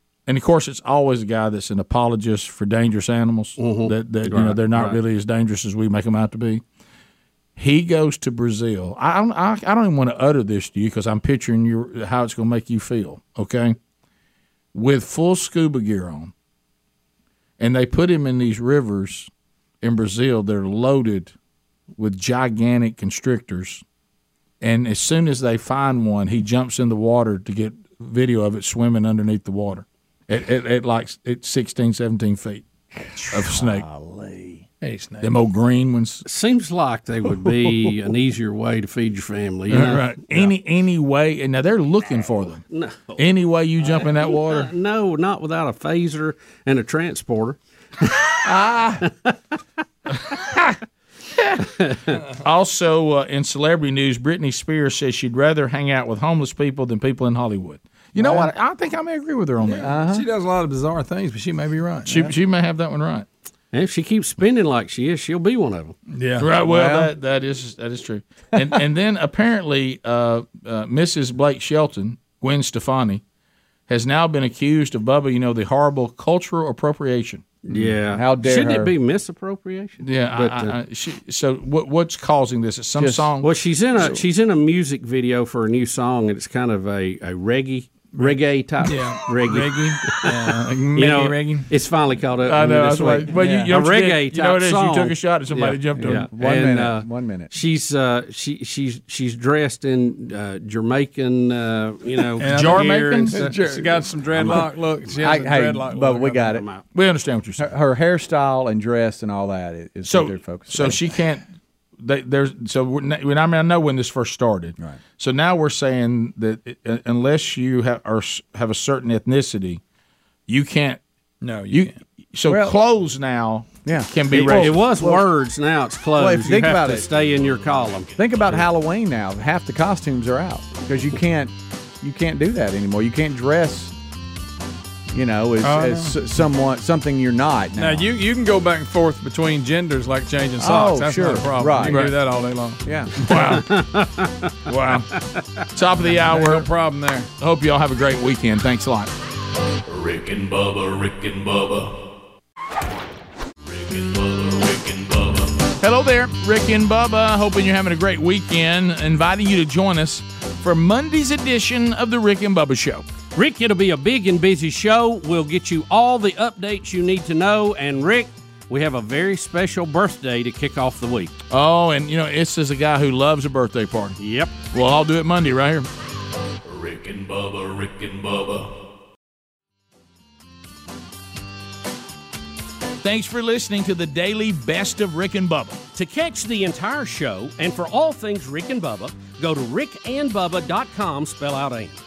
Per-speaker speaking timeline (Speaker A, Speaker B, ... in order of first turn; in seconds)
Speaker A: 0.3-6.6, 7.6-13.8, 14.7-16.3, 17.6-19.3, 19.8-21.3, 22.0-23.8, 24.6-32.6, 33.3-33.9, 35.2-36.2, 39.7-42.6, 43.2-44.7, 50.1-50.8, 51.4-51.6, 52.4-60.0, 62.1-63.3, 66.4-73.2, 73.9-77.5, 80.0-83.5, 92.4-96.3, 102.5-103.5, 106.9-107.7, 110.0-111.5, 112.0-119.8, 120.5-121.0, 121.7-124.8, 143.3-143.8, 144.7-145.1, 145.7-146.7, 147.4-149.1, 155.8-163.1, 171.5-174.2, 174.7-175.9, 183.0-185.8
Speaker B: 3.6-5.0, 36.2-40.1, 42.7-43.2, 43.8-49.4, 51.6-52.2, 63.7-66.0, 77.7-80.8, 83.4-104.7, 106.5-106.8, 124.3-128.6, 143.3-145.4, 163.3-171.3, 174.2-174.5, 185.9-192.0
Speaker C: 33.9-34.5, 58.2-58.5, 59.8-60.3, 66.6-67.1, 77.7-78.9, 83.0-83.3, 93.2-93.8, 96.0-97.5, 103.5-103.8, 104.4-106.6, 107.6-111.2, 122.5-122.8, 123.8-125.3, 126.2-127.1, 128.2-133.9, 135.1-138.1, 140.6-142.3, 142.8-143.1
Speaker D: 34.8-35.4, 59.6-62.3, 66.1-66.6, 88.2-91.7, 102.4-106.6, 121.4-122.0, 135.6-136.2, 137.8-142.8, 146.1-147.3
Speaker E: 127.4-127.7, 149.9-152.0, 153.7-155.6, 176.7-178.8